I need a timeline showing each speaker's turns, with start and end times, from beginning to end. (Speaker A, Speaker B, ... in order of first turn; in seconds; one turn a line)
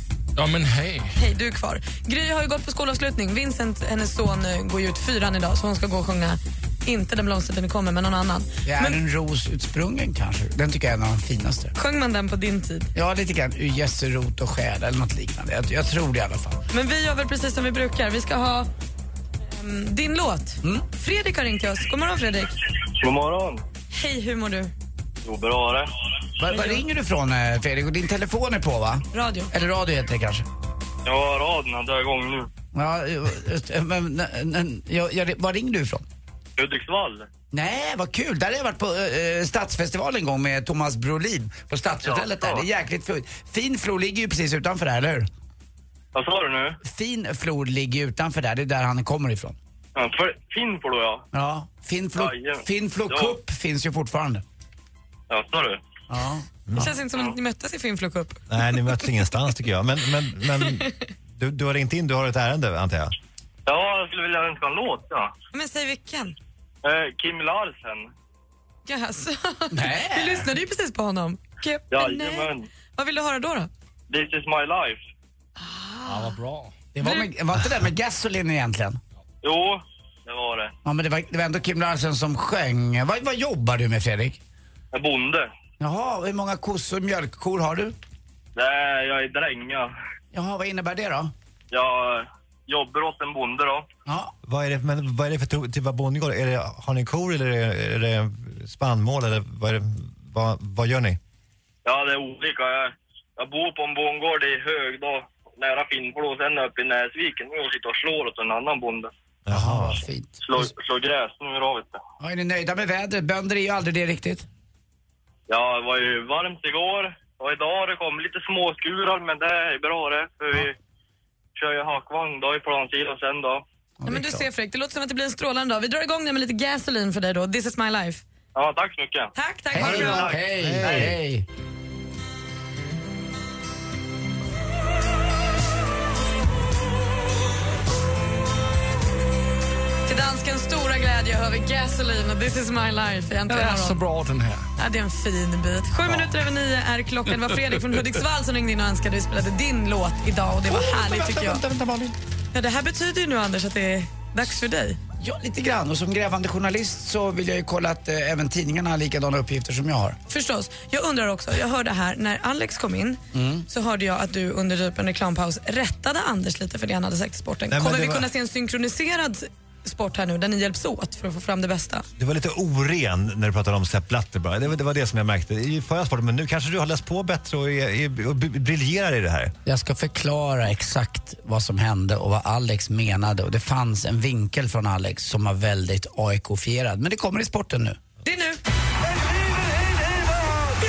Speaker A: 0.4-1.1
Speaker B: 1.1-9.0
Speaker C: 8.7-11.7
Speaker B: 11.8-12.9
Speaker C: 12.9-16.6
Speaker B: 16.7-18.7
Speaker B: 19.5-22.6
Speaker D: 23.0-23.6
Speaker B: 23.9-24.7
Speaker D: 25.2-25.9
Speaker C: 26.4-30.4
Speaker B: 26.5-26.8
Speaker B: 29.1-29.5
Speaker D: 31.1-32.5
Speaker C: 32.7-36.0
Speaker D: 36.6-37.3
Speaker C: 37.5-45.3
Speaker D: 42.0-42.7
Speaker D: 46.1-46.8
Speaker C: 46.9-49.6
Speaker D: 50.0-51.3
Speaker C: 51.3-54.4
Speaker D: 52.2-53.4
Speaker D: 55.3-55.8
Speaker C: 56.1-56.5
Speaker E: 56.7-56.9
Speaker B: 56.8-58.4
Speaker E: 58.5-63.1
Speaker B: 60.6-61.0
Speaker D: 63.7-65.3
Speaker B: 65.5-66.4
Speaker D: 66.8-68.1
Speaker B: 68.9-73.7
Speaker C: 69.7-70.5
Speaker D: 71.9-72.7
Speaker D: 74.1-75.0
Speaker B: 75.6-76.3
Speaker A: 76.0-76.8
Speaker C: 76.9-79.0
Speaker B: 77.0-77.3
Speaker D: 79.4-80.7
Speaker C: 80.8-84.4
Speaker D: 84.9-85.5
Speaker C: 85.8-88.0
Speaker D: 88.6-89.9
Speaker C: 90.3-91.3
Speaker D: 91.7-93.9
Speaker C: 94.1-94.3
Speaker E: 94.4-101.2
Speaker D: 101.8-109.1
Speaker E: 109.5-110.0
Speaker C: 109.5-110.7
Speaker D: 110.4-112.0
Speaker C: 112.2-114.5
Speaker D: 115.5-120.8
Speaker D: 121.6-123.6
Speaker C: 124.0-124.5
Speaker B: 124.1-128.2
Speaker D: 128.6-129.3
Speaker B: 129.3-130.3
Speaker C: 129.7-131.5
Speaker E: 129.7-131.2
Speaker B: 140.1-144.0
Speaker A: 143.5-144.7
Speaker B: 144.8-151.6
Speaker C: 150.7-152.2
Speaker B: 152.5-155.0
Speaker C: 155.2-160.2
Speaker B: 160.3-172.1
Speaker C: 163.3-163.7
Speaker E: 167.7-168.3
Speaker E: 172.2-179.5
Speaker C: 179.7-188.0
Speaker B: 188.2-188.6